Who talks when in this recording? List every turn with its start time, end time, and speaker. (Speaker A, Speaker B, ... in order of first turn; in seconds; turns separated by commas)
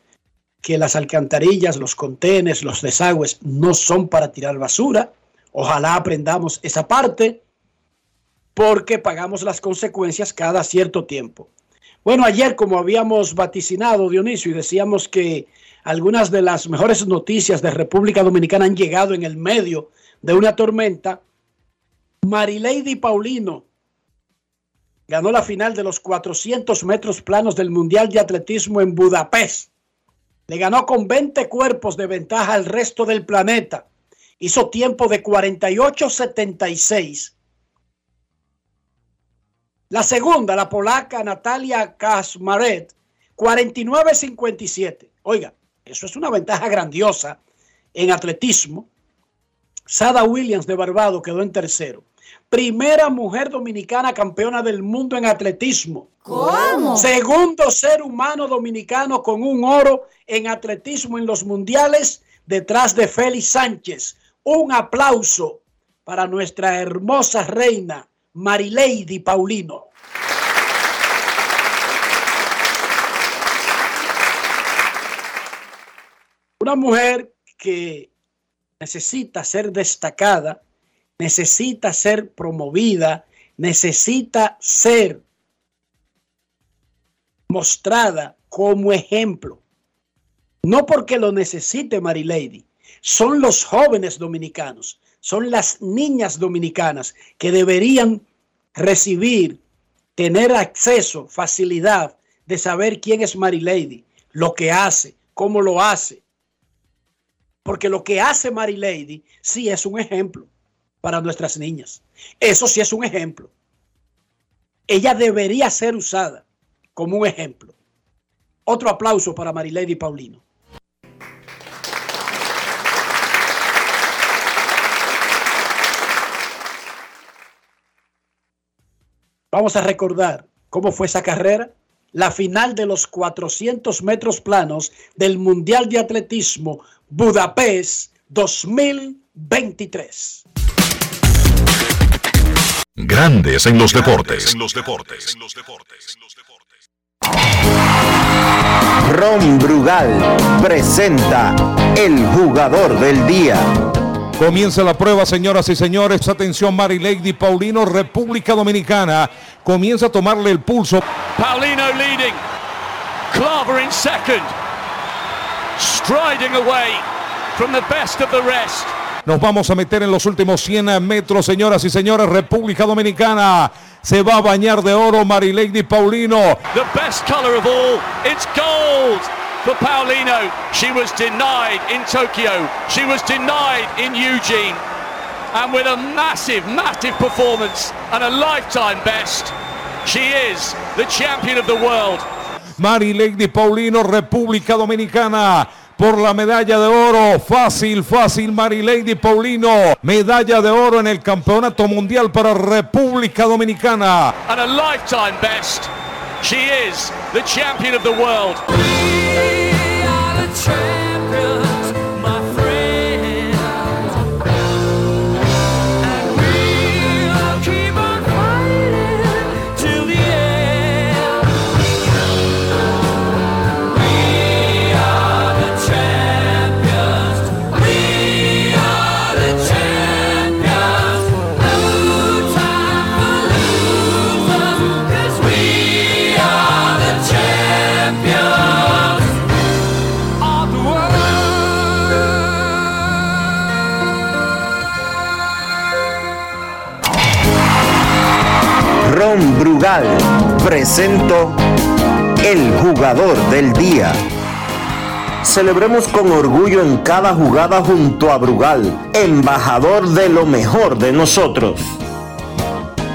Speaker A: 0.6-7.4, Speaker A: 8.6-11.5, Speaker A: 12.1-21.2, Speaker A: 22.2-23.6, Speaker A: 25.1-29.7, Speaker A: 30.5-33.9, Speaker A: 34.4-37.3, Speaker A: 39.9-47.4, Speaker A: 47.9-48.9, Speaker A: 49.9-56.1, Speaker A: 56.9-69.9, Speaker A: 76.6-78.1, Speaker A: 78.8-80.6, Speaker A: 81.2-85.2, Speaker A: 87.5-89.6, Speaker A: 90.6-98.2, Speaker A: 98.8-99.6, Speaker A: 100.2-106.2, Speaker A: 107.7-110.5, Speaker A: 111.0-113.5, Speaker A: 114.9-116.4, Speaker A: 117.0-117.7, Speaker A: 118.7-120.4, Speaker A: 129.5-140.4, Speaker B: 143.0-146.4, Speaker C: 149.0-153.7, Speaker D: 154.4-161.0, Speaker E: 161.3-162.4, Speaker E: 163.3-164.6, Speaker E: 165.8-168.9, Speaker D: 169.2-176.6, Speaker E: 176.7-184.8, Speaker E: 185.5-192.3, Speaker D: 192.8-204.3, Speaker E: 204.5-213.8, Speaker E: 216.1-221.2, Speaker C: 249.0-251.6, Speaker C: 252.4-254.2, Speaker C: 255.4-262.0